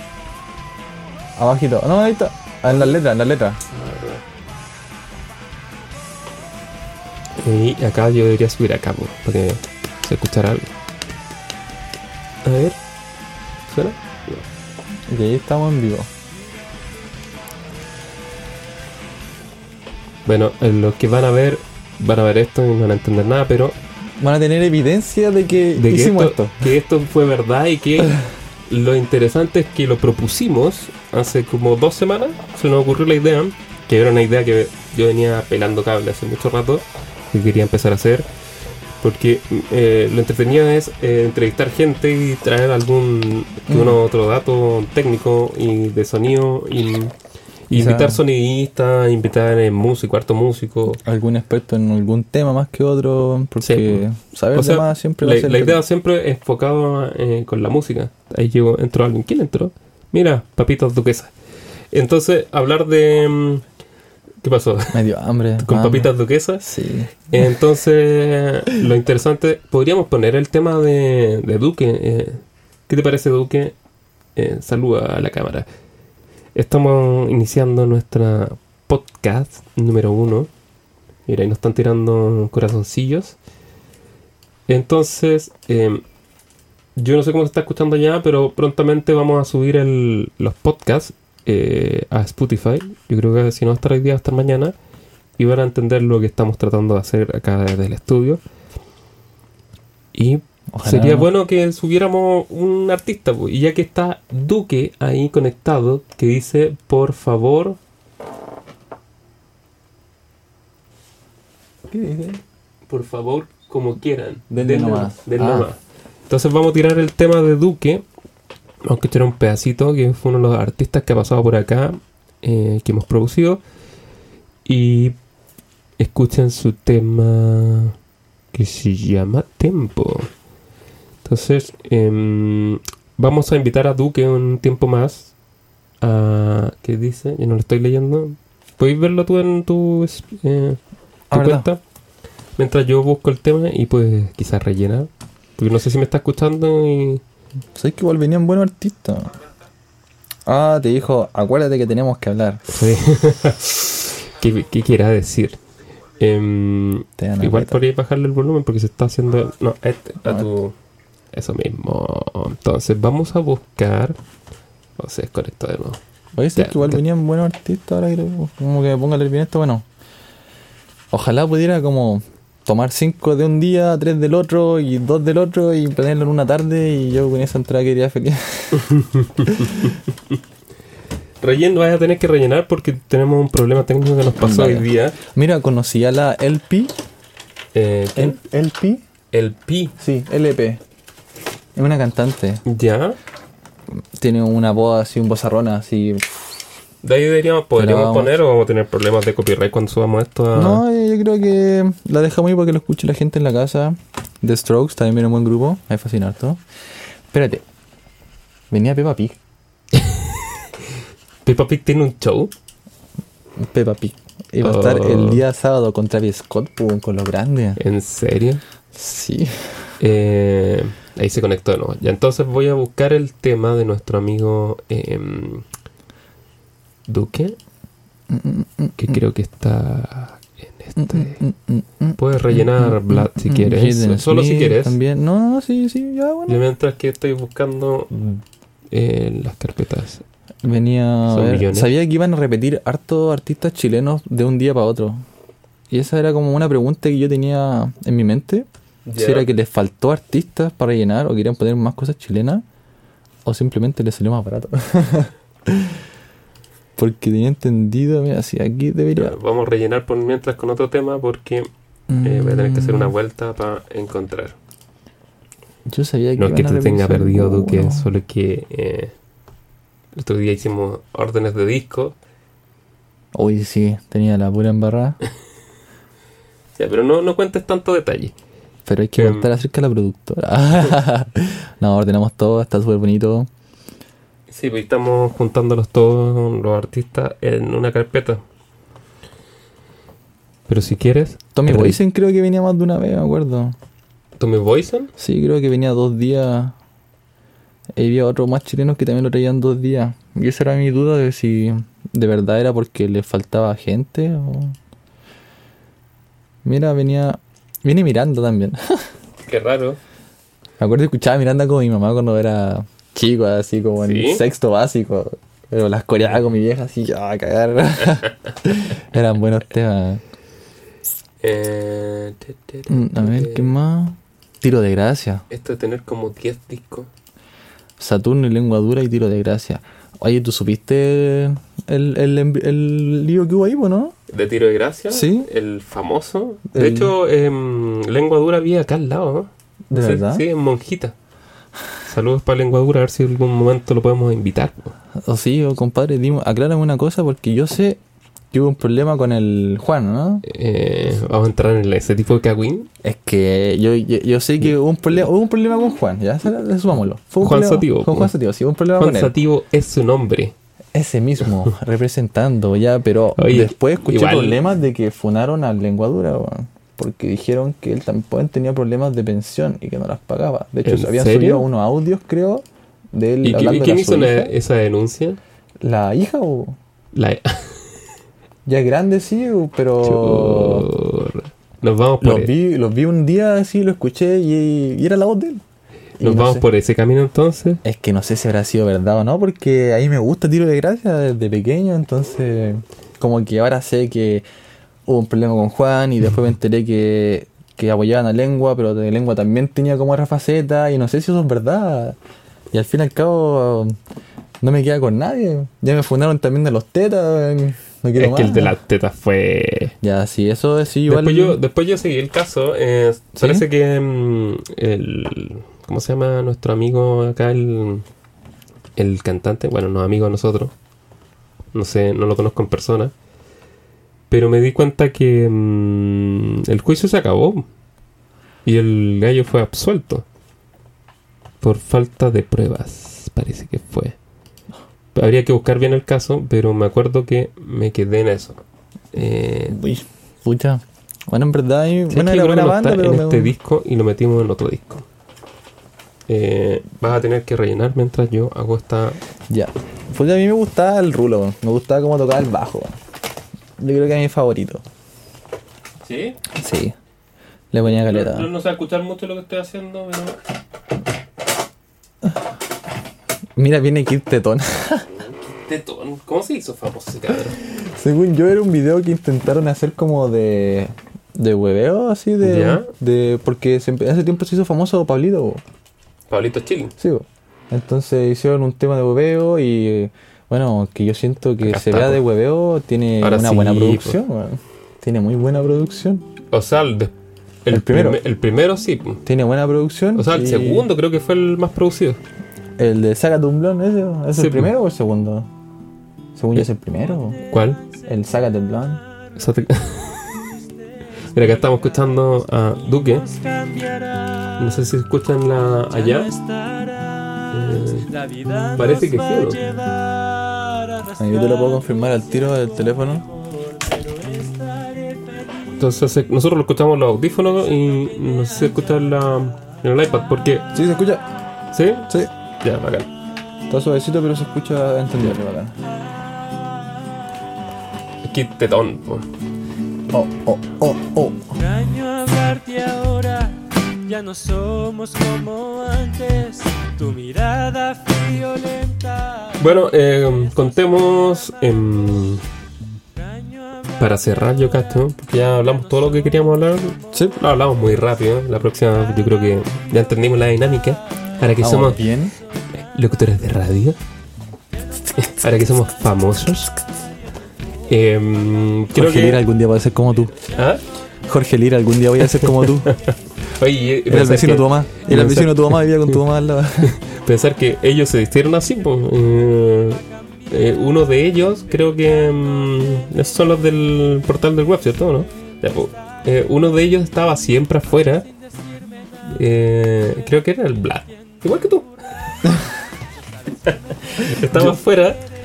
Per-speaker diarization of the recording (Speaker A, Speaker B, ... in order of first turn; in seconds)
Speaker A: 1.4-3.6, 15.1-16.1, 24.2-26.7, 43.7-44.0, 47.7-48.2, 51.0-55.8, 64.9-67.1, 100.7-101.3, 111.9-112.4, 114.5-115.7, 141.3-141.7, 147.8-149.3, 150.5-152.7, 157.2-157.8, 166.4-169.8, 171.1-178.9, 179.5-179.9, 184.4-187.0, 188.2-189.0, 190.0-190.8, 191.8-192.6, 194.0-196.6, 197.8-198.3, 200.6-206.6, 207.3-207.6, 208.7-209.4, 213.6-217.8, 218.9-219.9, 228.3-229.2, 231.0-236.6, 240.6-245.2, 245.9-252.6, 253.4-256.0, 257.0-259.4, 262.1-263.1, 265.9-268.1, 273.3-275.2, 278.9-283.5, 291.6-293.8, 295.2-296.8, 298.0-304.8, 306.6-309.1, 310.8-320.2, 322.9-325.4, 328.0-334.1, 335.1-335.5, 336.7-337.1, 339.9-340.4, 345.2-348.0, 348.5-350.4, 353.0-359.3, 360.9-374.5, 375.8-376.8, 378.7-380.9, 382.2-385.6, 386.2-386.6, 387.8-394.4, 395.1-402.2, 402.7-403.9, 404.6-408.8, 410.0-411.6, 413.4-413.7, 439.7-443.6, 449.5-453.0, 453.8-454.8, 456.5-457.0, 457.7-458.5, 463.6-465.1, 467.7-475.6, 477.0-486.3, 487.7-488.2, 489.3-490.9, 492.8-495.5, 496.4-497.4, 498.1-499.0, 511.2-513.3, 520.7-521.3, 523.7-525.8, 530.1-531.6, 547.1-547.4, 551.6-552.3, 559.0-560.4, 561.3-562.9, 564.1-567.0
Speaker B: 2.7-3.0, 3.7-4.2, 7.4-10.7, 12.4-12.8, 13.7-14.5, 20.3-23.8, 25.8-28.2, 28.7-38.3, 39.0-47.1, 47.7-51.0, 53.6-54.0, 54.5-61.3, 61.9-63.6, 64.4-65.0, 65.6-66.7, 67.3-73.8, 74.4-75.7, 76.5-80.5, 81.3-83.4, 84.7-86.0, 87.0-94.8, 95.4-98.4, 100.1-107.8, 112.9-118.0, 118.9-123.6, 124.7-125.2, 126.0-128.0, 128.5-130.3, 131.2-135.3, 136.0-140.8, 141.3-141.8, 142.6-147.2, 152.7-155.6, 156.2-160.8, 161.3-164.2, 165.0-166.0, 166.6-167.0, 178.8-180.4, 181.4-185.2, 187.7-188.4, 189.3-189.9, 192.7-193.2, 197.0-200.8, 209.9-210.5, 211.4-212.5, 214.6-215.4, 217.8-218.6, 220.0-225.7, 227.1-227.6, 229.0-231.4, 232.2-235.0, 236.5-238.1, 238.9-240.2, 241.3-241.9, 249.1-249.5, 259.2-261.7, 262.2-264.6, 266.4-269.1, 270.1-272.2, 276.8-278.3, 279.2-279.5, 284.5-288.4, 290.7-292.0, 294.4-295.1, 309.5-310.0, 314.0-314.4, 321.4-323.7, 325.5-327.1, 334.3-341.1, 342.1-344.9, 350.4-352.9, 357.4-358.3, 359.0-360.5, 363.4-364.6, 370.9-371.6, 373.4-375.4, 377.1-377.9, 380.0-382.5, 386.2-387.8, 408.2-409.9, 411.1-418.1, 419.0-420.7, 421.7-423.1, 424.3-427.7, 428.6-430.2, 431.6-434.2, 435.1-438.6, 439.1-439.8, 442.1-445.1, 446.3-449.2, 456.0-456.4, 457.8-460.4, 465.1-467.6, 472.4-472.9, 476.3-476.9, 481.6-482.2, 483.2-484.2, 486.5-487.1, 487.6-489.2, 490.1-492.2, 494.4-494.7, 497.5-497.8, 499.4-500.4, 501.3-503.3, 504.6-506.3, 507.5-508.1, 508.8-509.6, 515.8-520.7, 521.7-522.1, 522.6-523.1, 528.2-529.3, 539.6-542.5, 544.0-552.1, 552.8-554.0, 555.2-556.7, 557.9-559.4, 560.5-560.8, 562.3-566.2, 566.8-578.3, 579.3-582.6, 583.6-585.2
Speaker C: 503.1-504.5, 505.9-511.9, 513.1-515.8, 531.6-539.6, 543.2-543.6